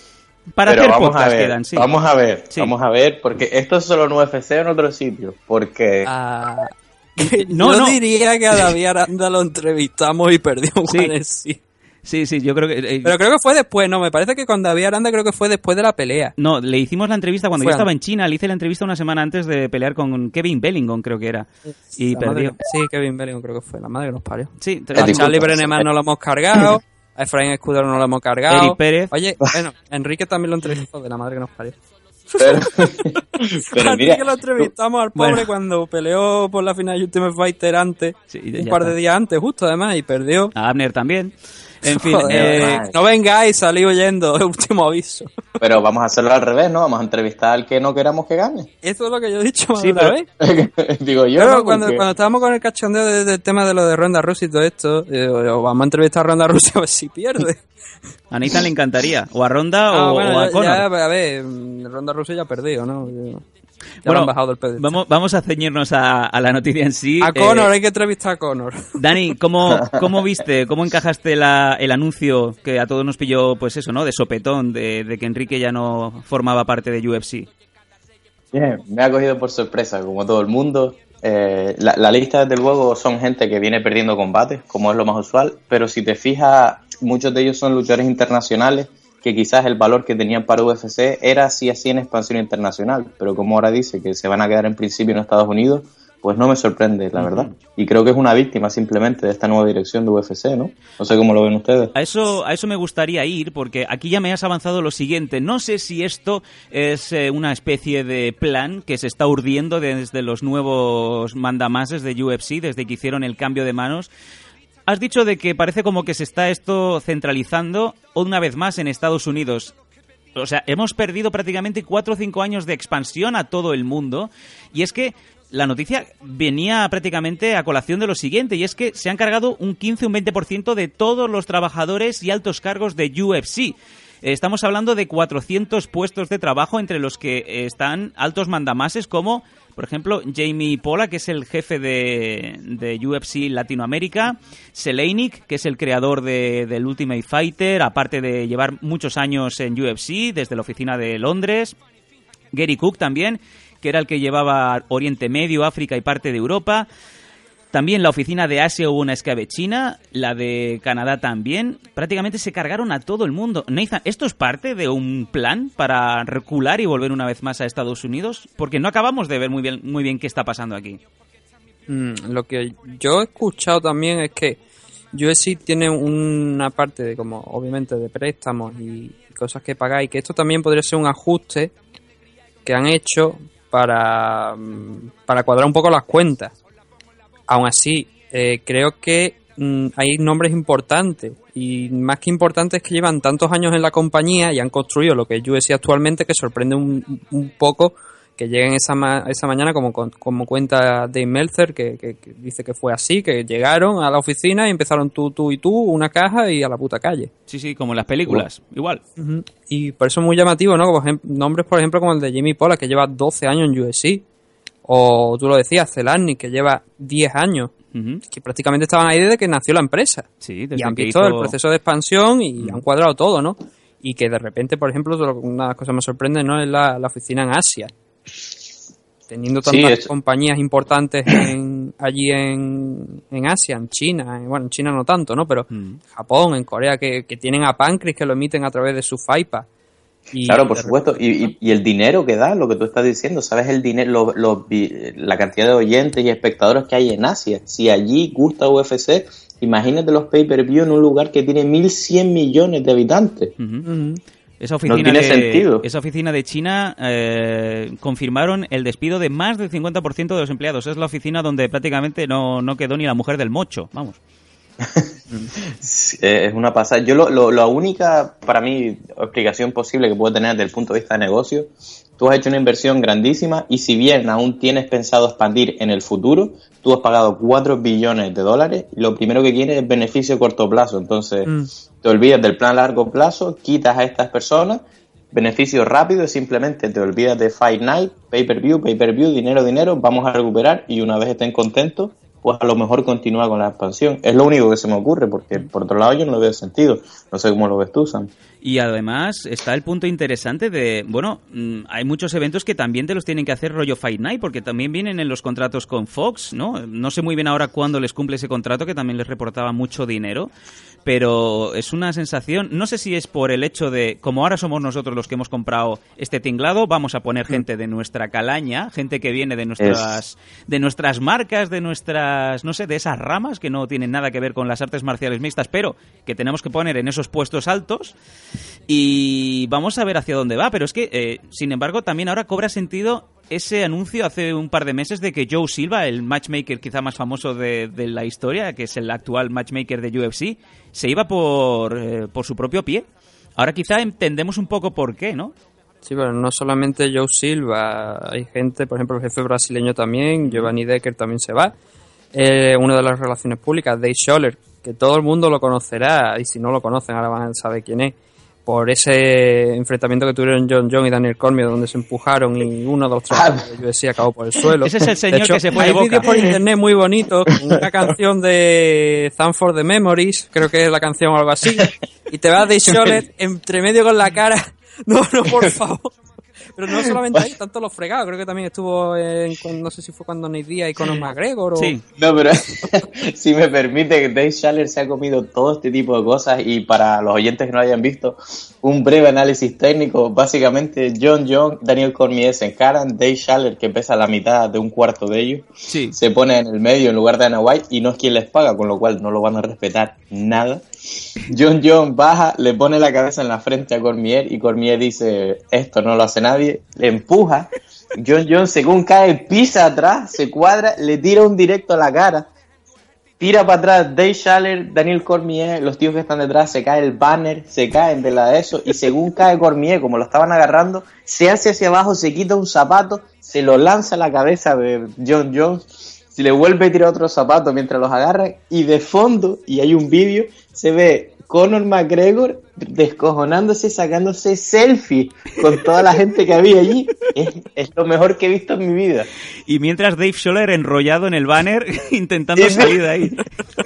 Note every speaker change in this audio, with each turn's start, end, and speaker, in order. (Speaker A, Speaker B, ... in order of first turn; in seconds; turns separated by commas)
Speaker A: 0.6-1.9, Speaker B: 0.7-6.1, Speaker C: 6.0-11.6, Speaker A: 7.3-8.0, Speaker A: 10.9-11.1, Speaker A: 12.0-13.1, Speaker C: 13.0-16.3, Speaker A: 16.4-22.6, Speaker C: 17.6-17.9, Speaker C: 22.1-31.8, Speaker A: 24.6-25.4, Speaker B: 24.9-25.8, Speaker A: 28.5-29.1, Speaker C: 32.3-40.5, Speaker B: 32.4-34.7, Speaker A: 35.2-35.4, Speaker A: 38.3-38.9, Speaker A: 40.5-42.8, Speaker C: 41.8-45.3, Speaker B: 42.3-42.9, Speaker B: 45.6-48.7, Speaker C: 48.8-50.3, Speaker A: 49.8-50.1, Speaker B: 50.4-52.0, Speaker C: 51.4-57.6, Speaker A: 58.3-60.8, Speaker C: 59.9-63.4, Speaker C: 64.0-65.0, Speaker A: 64.0-67.7, Speaker C: 67.2-68.8, Speaker A: 69.0-77.5, Speaker B: 78.5-101.9, Speaker A: 97.2-97.5, Speaker A: 101.9-114.1, Speaker A: 114.8-119.7, Speaker A: 120.3-151.8, Speaker A: 152.5-156.9, Speaker A: 157.7-171.0, Speaker C: 171.9-174.6, Speaker C: 175.1-181.7, Speaker C: 182.6-186.5, Speaker C: 187.5-207.3, Speaker A: 207.5-209.0, Speaker C: 209.2-214.2, Speaker C: 214.8-217.7, Speaker A: 217.9-218.2, Speaker C: 218.3-227.9, Speaker A: 220.4-221.5, Speaker C: 229.3-239.7, Speaker B: 229.6-230.1, Speaker A: 235.7-236.0, Speaker C: 240.3-241.0, Speaker B: 240.4-253.5, Speaker A: 253.6-253.8, Speaker C: 253.8-254.2, Speaker A: 254.6-264.2, Speaker B: 254.9-255.8, Speaker B: 264.8-265.1, Speaker B: 265.7-298.3, Speaker A: 298.6-310.5, Speaker A: 311.1-328.1, Speaker B: 319.8-320.2, Speaker A: 328.9-343.0, Speaker A: 343.6-345.5, Speaker C: 346.0-351.7, Speaker A: 350.4-350.7, Speaker C: 352.3-358.1, Speaker C: 358.6-376.1, Speaker B: 363.3-363.6, Speaker A: 364.8-366.5, Speaker C: 376.8-381.9, Speaker A: 381.8-382.0, Speaker B: 382.1-412.5, Speaker A: 395.9-396.1, Speaker B: 413.4-439.3, Speaker A: 439.7-443.4, Speaker B: 442.6-443.0